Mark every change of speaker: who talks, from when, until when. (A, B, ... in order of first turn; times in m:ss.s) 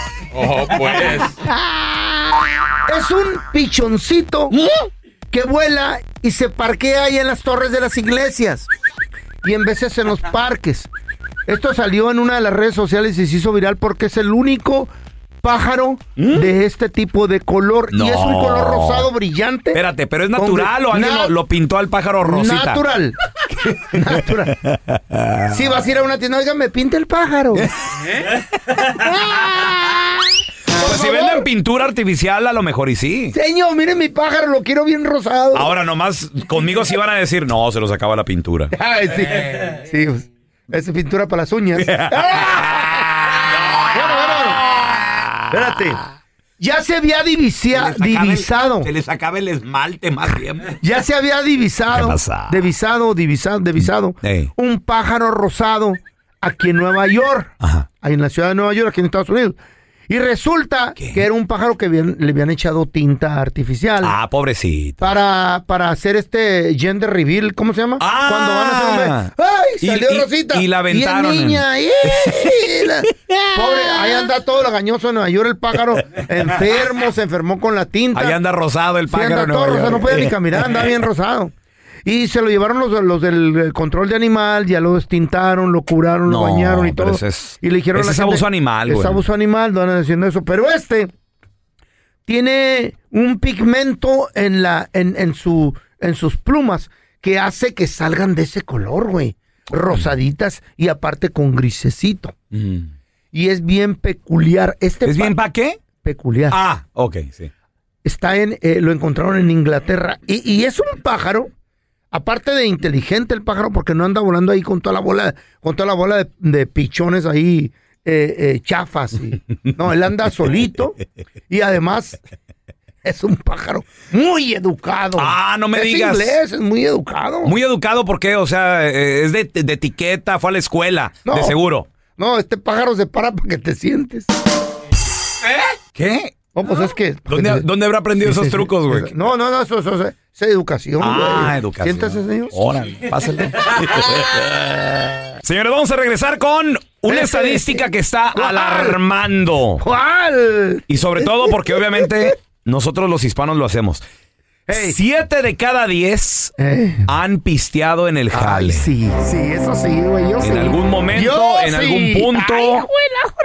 0:00.4-0:01.4 A
0:02.8-0:04.5 B
0:04.6-0:04.9 A
0:05.3-0:08.7 B
0:09.4-0:10.9 B
0:11.4-0:19.8 B
0:16.2-0:16.5 A
0:17.9-0:19.1 A
0:19.7-0:22.8 A
0:20.3-0:21.3 B
0:22.2-0:24.6 B
0:24.6-0:25.6 A
0:25.5-0:27.7 B
0:27.6-0:29.6 A
0:29.0-0:30.1 B
0:30.7-0:31.4 B
0:30.8-0:33.3 A
0:33.3-0:35.7 B
0:35.5-0:38.7 A
0:38.7-0:43.1 B
0:41.8-0:45.8 A
0:43.9-0:44.6 B
0:45.5-0:46.0 B
0:46.6-0:48.9 B
0:47.7-0:50.8 A
0:50.8-1:04.1 B
0:51.9-0:52.6 A
0:54.2-0:54.5 A
0:57.6-0:57.9 A
1:01.0-1:01.2 A
1:04.0-1:05.1 A
1:05.0-1:18.4 B
1:08.0-1:09.3 A
1:09.8-1:11.6 A
1:12.2-1:14.1 A
1:18.1-1:20.3 A
1:19.1-1:21.5 B
1:22.0-1:31.1 B
1:26.2-1:29.2 A
1:32.3-1:42.3 B
1:42.5-1:42.9 A
1:43.3-1:45.4 B
1:45.0-1:45.8 A
1:46.0-1:46.6 B
1:46.5-1:47.5 A
1:48.0-1:51.5 B
1:52.1-2:01.0 B
2:01.5-2:02.2 B
2:03.0-2:07.5 B
2:05.2-2:06.4 A
2:07.4-2:11.9 A
2:11.2-2:11.6 B
2:12.2-2:14.3 B
2:15.9-2:16.3 A
2:16.5-2:17.6 B
2:17.3-2:19.1 A
2:18.2-2:22.6 B
2:21.0-2:24.8 A
2:23.6-2:24.0 B
2:25.4-2:29.8 A
2:27.1-2:29.0 B
2:29.8-2:32.3 B
2:30.9-2:34.0 A
2:34.7-2:35.0 B
2:34.7-2:36.5 A
2:36.6-2:37.1 B
2:37.1-2:38.9 A
2:38.3-2:42.8 B
2:40.4-2:42.9 A